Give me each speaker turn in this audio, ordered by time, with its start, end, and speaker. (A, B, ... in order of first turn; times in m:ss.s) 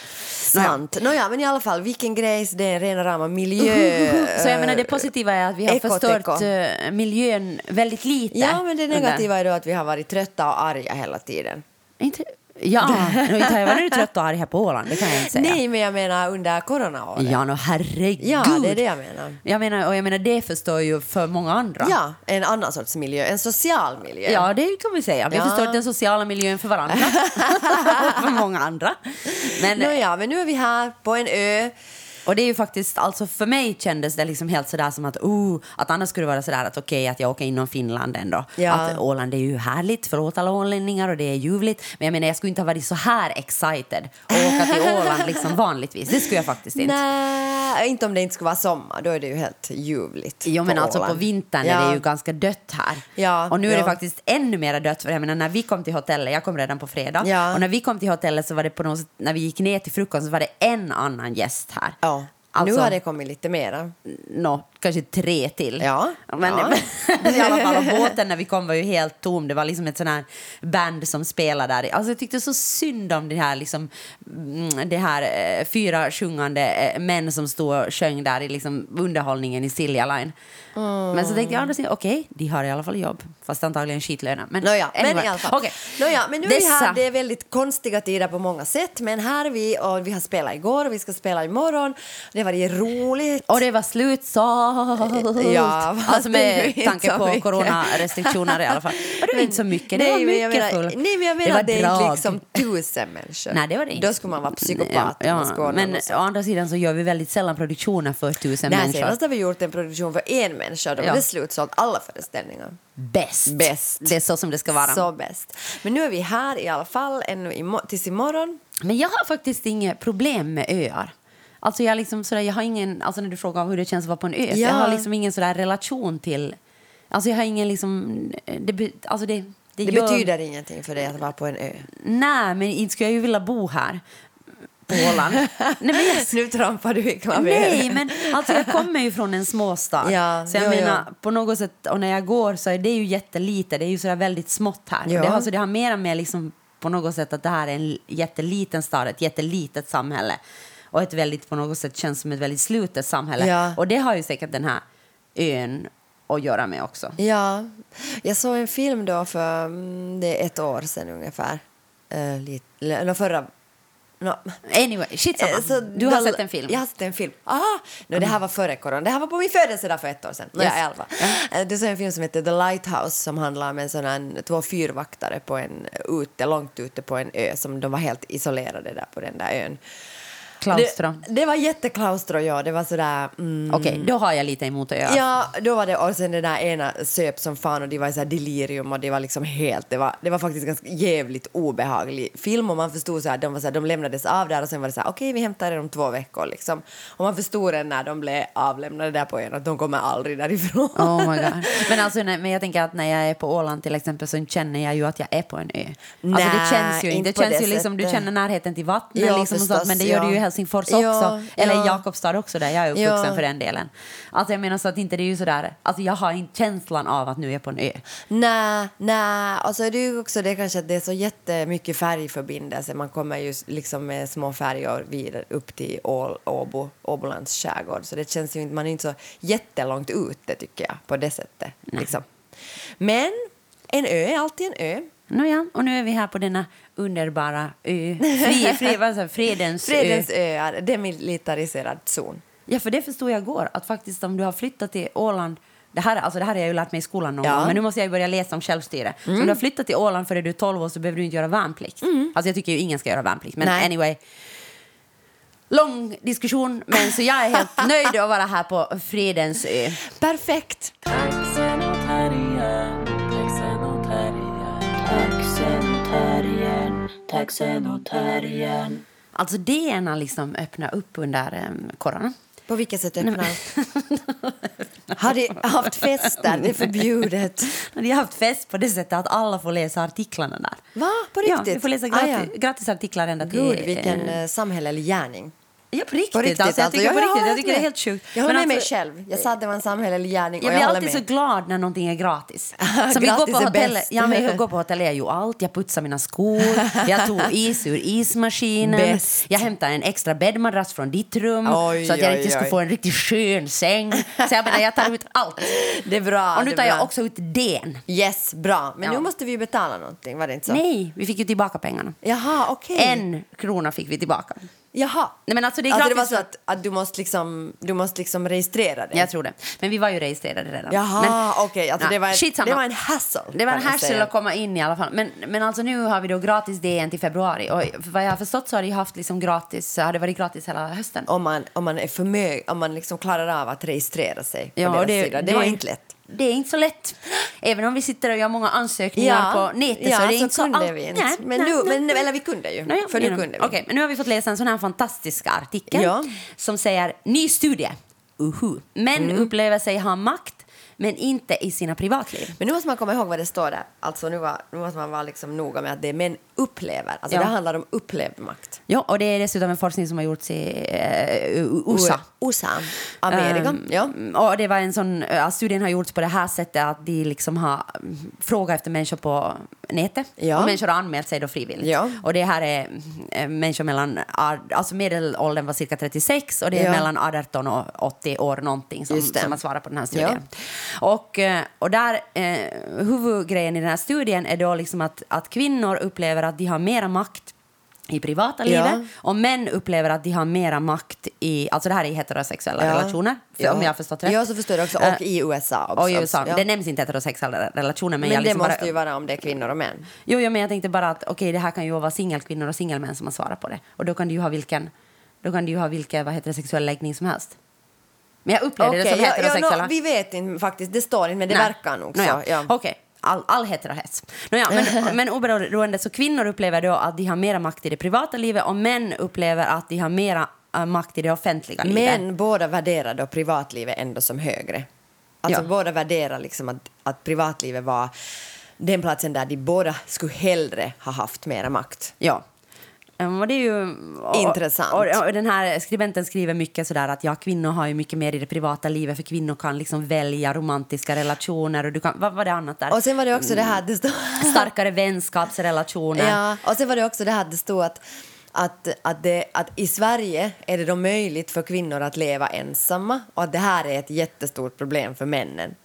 0:00.4-0:00.8 A
0:00.5-0:05.1 B
0:03.6-0:09.2 A
0:05.6-0:06.5 B
0:08.3-0:11.6 B
0:12.0-0:15.6 A
0:12.8-0:14.0 B
0:14.9-0:17.4 B
0:17.2-0:18.8 A
0:18.2-0:19.4 B
0:19.4-0:22.0 A
0:21.8-0:24.4 B
0:24.2-0:29.9 A
0:25.3-0:25.8 B
0:26.9-0:28.3 B
0:29.4-0:31.7 B
0:32.2-0:47.0 A
0:38.6-0:39.0 B
0:44.3-0:45.6 B
0:46.1-0:52.0 B
0:50.4-1:02.0 A
0:53.2-0:54.0 B
0:57.2-0:57.6 B
1:02.0-1:03.9 B
1:02.5-1:03.0 A
1:04.1-1:20.3 A
1:05.8-1:08.1 B
1:20.8-1:21.7 B
1:21.1-1:27.0 A
1:24.6-1:33.6 B
1:33.4-1:42.6 A
1:35.1-1:46.2 B
1:43.5-1:49.2 A
1:48.7-1:52.8 B
1:51.0-1:51.2 A
1:53.0-1:55.1 A
1:53.5-1:54.1 B
1:54.8-1:58.6 B
1:58.8-2:06.6 A
2:04.5-2:05.1 B
2:07.1-2:10.3 A
2:09.8-2:11.9 B
2:12.0-2:14.0 A
2:14.8-2:16.3 A
2:14.9-2:18.7 B
2:17.3-2:30.4 A
2:20.0-2:21.0 B
2:25.1-2:25.5 B
2:30.9-2:34.8 A
2:33.4-2:33.8 B
2:35.3-2:37.2 A
2:37.2-2:43.5 B
2:44.2-2:44.6 B
2:44.7-2:46.8 A
2:45.4-2:59.8 B
2:50.6-2:51.4 A
3:00.6-3:01.2 A
3:00.7-3:04.1 B
3:03.7-3:05.2 A
3:05.0-3:21.9 B
3:20.9-3:38.0 A
3:26.2-3:28.2 B
3:29.1-3:32.0 B
3:32.9-3:33.4 B
3:38.3-3:52.3 B
3:53.0-3:53.4 B
3:53.9-3:55.1 B
3:55.3-4:00.3 A
3:58.3-3:58.9 B
3:59.8-4:02.4 B
4:02.7-4:14.2 A
4:07.4-4:07.8 B
4:09.3-4:09.6 B
4:12.0-4:12.3 B
4:13.6-4:13.9 B
4:15.7-4:20.0 A
4:20.1-4:20.9 B
4:21.1-4:29.0 C
4:29.3-4:32.3 A
4:32.7-4:33.6 B
4:33.2-4:35.2 A
4:35.2-4:37.8 B
4:35.8-4:37.2 A
4:37.7-4:40.8 A
4:40.9-4:42.5 B
4:41.4-4:44.4 A
4:43.4-4:45.5 B
4:45.9-4:48.9 A
4:46.3-4:51.2 B
4:50.6-5:05.8 A
4:52.8-4:54.6 B
4:58.8-4:59.6 B
5:01.6-5:02.8 B
5:04.3-5:04.8 B
5:05.6-5:07.1 B
5:06.5-5:08.0 A
5:08.1-5:10.8 B
5:10.7-5:12.2 A
5:12.2-5:13.2 B
5:12.9-5:14.7 A
5:14.9-5:15.4 B
5:15.5-5:16.4 A
5:15.9-5:19.3 B
5:19.1-5:21.4 A
5:20.9-5:24.3 B
5:22.0-5:22.8 A
5:23.5-5:31.3 A
5:31.3-5:36.1 B
5:34.8-5:42.2 A
5:39.2-5:43.8 B
5:42.9-5:52.6 A
5:45.9-5:46.3 B
5:49.2-5:49.5 B
5:52.6-5:58.8 B
5:58.9-6:02.2 A
6:01.9-6:04.1 B
6:03.3-6:27.5 A
6:10.4-6:10.8 B
6:11.8-6:12.2 B
6:16.7-6:17.1 B
6:19.1-6:19.6 B
6:20.1-6:20.4 B
6:28.1-6:34.4 A
6:28.6-6:29.1 B
6:32.8-6:36.6 B
6:36.0-6:38.9 A
6:38.2-6:40.1 B
6:40.2-6:44.9 A
6:45.4-6:47.6 A
6:48.4-6:49.9 A
6:48.8-6:52.7 B
6:51.5-7:02.2 A
6:54.7-6:55.1 B
7:01.8-7:04.9 B
7:05.4-7:08.1 B
7:08.8-7:12.1 B
7:13.2-7:23.8 A
7:14.3-7:15.2 B
7:22.9-7:24.7 B
7:24.4-7:26.4 A
7:26.1-7:28.0 B
7:28.5-7:35.8 B